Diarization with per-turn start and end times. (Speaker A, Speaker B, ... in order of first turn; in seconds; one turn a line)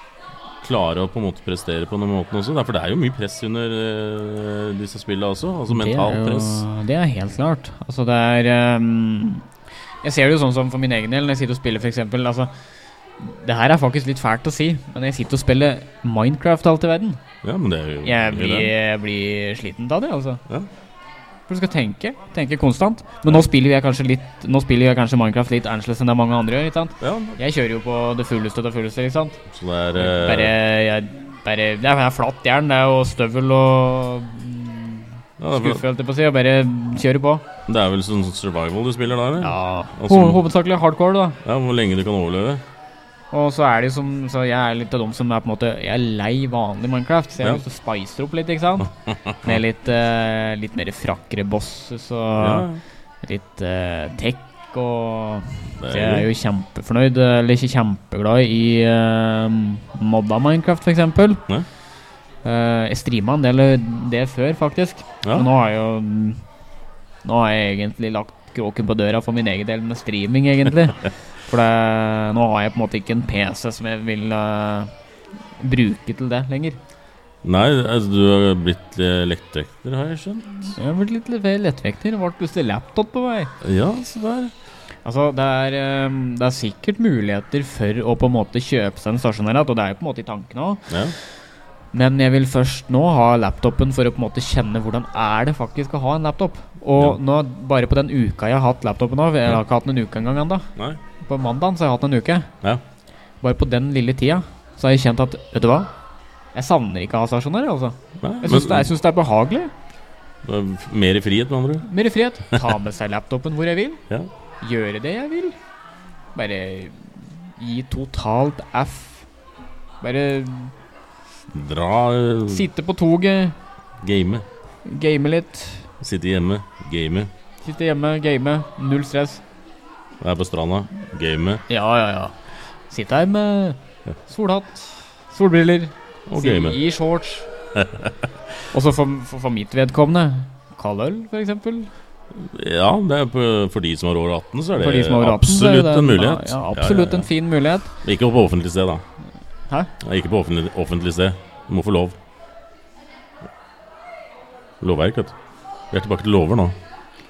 Speaker A: 0.6-6.6
Speaker B: 5.7-9.5
Speaker B: 10.0-12.5
Speaker B: 13.2-17.2
Speaker A: 17.4-18.7
Speaker B: 18.0-20.4
Speaker B: 21.5-29.4
Speaker A: 27.0-27.4
Speaker A: 29.5-30.5
Speaker B: 29.9-37.5
Speaker A: 35.4-35.8
Speaker A: 37.7-40.4
Speaker B: 39.4-41.4
Speaker A: 41.4-42.6
Speaker B: 43.3-48.9
Speaker A: 48.8-49.6
Speaker B: 49.4-52.7
Speaker A: 52.4-52.8
Speaker B: 53.2-61.4
Speaker A: 55.8-56.3
Speaker B: 62.4-66.4
Speaker A: 65.2-65.5
Speaker B: 67.2-74.9
Speaker B: 75.6-76.8
Speaker A: 77.4-80.8
Speaker B: 80.7-83.5
Speaker A: 83.6-84.5
Speaker B: 85.0-90.9
Speaker A: 90.9-91.2
Speaker B: 91.9-100.7
Speaker B: 101.2-102.5
Speaker B: 103.4-105.9
Speaker B: 106.5-109.7
Speaker A: 108.2-108.9
Speaker A: 110.4-111.8
Speaker B: 111.8-114.0
Speaker B: 114.6-115.5
Speaker B: 116.3-119.2
Speaker B: 120.0-120.7
Speaker A: 121.5-122.6
Speaker B: 122.5-123.6
Speaker A: 124.0-124.5
Speaker B: 124.8-125.9
Speaker A: 126.0-127.3
Speaker B: 127.6-129.4
Speaker A: 130.2-131.6
Speaker B: 131.7-132.3
Speaker B: 132.9-137.5
Speaker A: 136.3-136.8
Speaker A: 137.7-138.3
Speaker B: 138.7-141.9
Speaker A: 142.3-147.3
Speaker B: 144.8-147.9
Speaker A: 148.0-149.0
Speaker A: 150.0-152.2
Speaker A: 154.8-155.3
Speaker A: 155.9-156.8